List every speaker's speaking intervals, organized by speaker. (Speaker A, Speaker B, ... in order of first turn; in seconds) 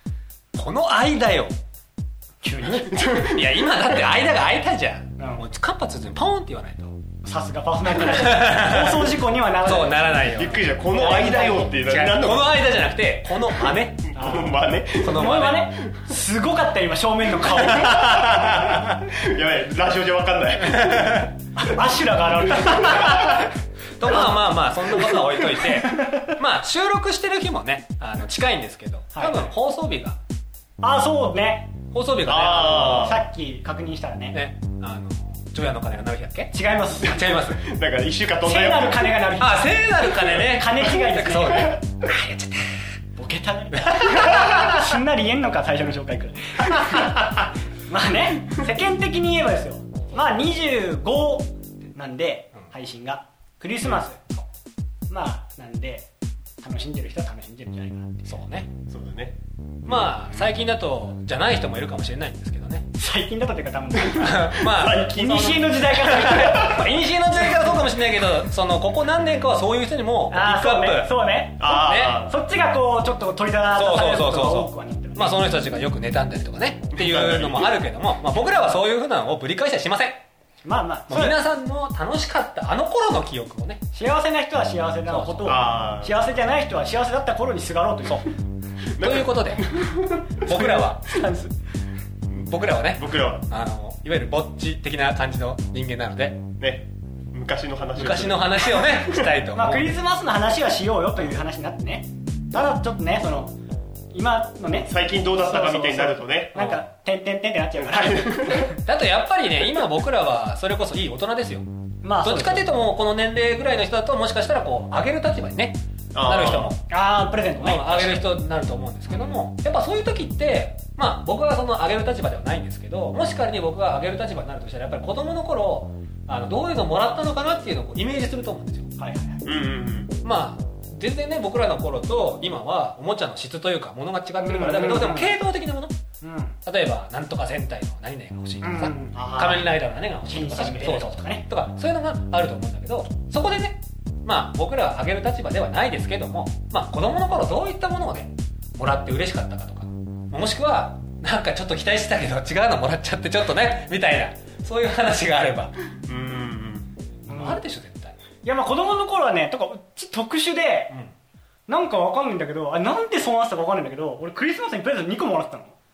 Speaker A: 0.5-1.5, 2.6-7.0, 8.0-10.6, 11.7-14.2, 15.0-15.7, 17.8-18.8, 20.8-21.3, 23.2-30.2, 31.9-33.2, 34.3-37.6, 39.4-42.8, 43.8-45.0, 46.8-47.1, 58.2-58.7, 59.8-62.9, 64.2-71.1, 71.6-72.2, 73.7-80.2, 81.1-83.8, 85.1-85.6, 89.0-89.7, 90.4-91.0, 92.4-96.5, 98.0-99.9, 106.5-106.8, 108.6-111.7, 112.2-116.8, 117.6-128.9, 130.2-135.9, 136.6-155.8, 157.2-158.1
Speaker B: 2.4-3.1, 5.2-5.4, 7.2-10.1, 10.9-11.7, 14.1-18.6, 21.5-23.5, 25.9-26.3, 29.1-29.5, 30.8-31.7, 32.5-34.4, 36.5-37.4, 38.4-41.8, 43.1-54.4, 55.1-56.1, 56.6-58.3, 62.9-66.9, 70.3-75.4, 80.6-81.4, 83.9-88.3, 90.5-91.5, 99.5-103.6, 104.1-108.8, 112.0-112.7, 116.9-118.3, 129.0-129.4, 134.4-135.4, 136.2-136.6, 138.6-139.7, 140.2-141.5, 157.3-157.6, 158.4-160.9, 161.7-165.7
Speaker C: 2.9-3.5, 10.3-12.6, 14.1-16.0, 17.6-21.2, 22.6-23.4, 32.2-33.2, 37.0-39.2, 58.8-60.2, 63.9-66.9, 71.6-72.3, 76.9-77.7, 85.5-86.2, 88.9-90.6, 93.0-93.5, 96.6-99.3, 104.8-106.5, 107.8-108.7, 116.1-116.7, 129.4-130.1, 156.0-156.9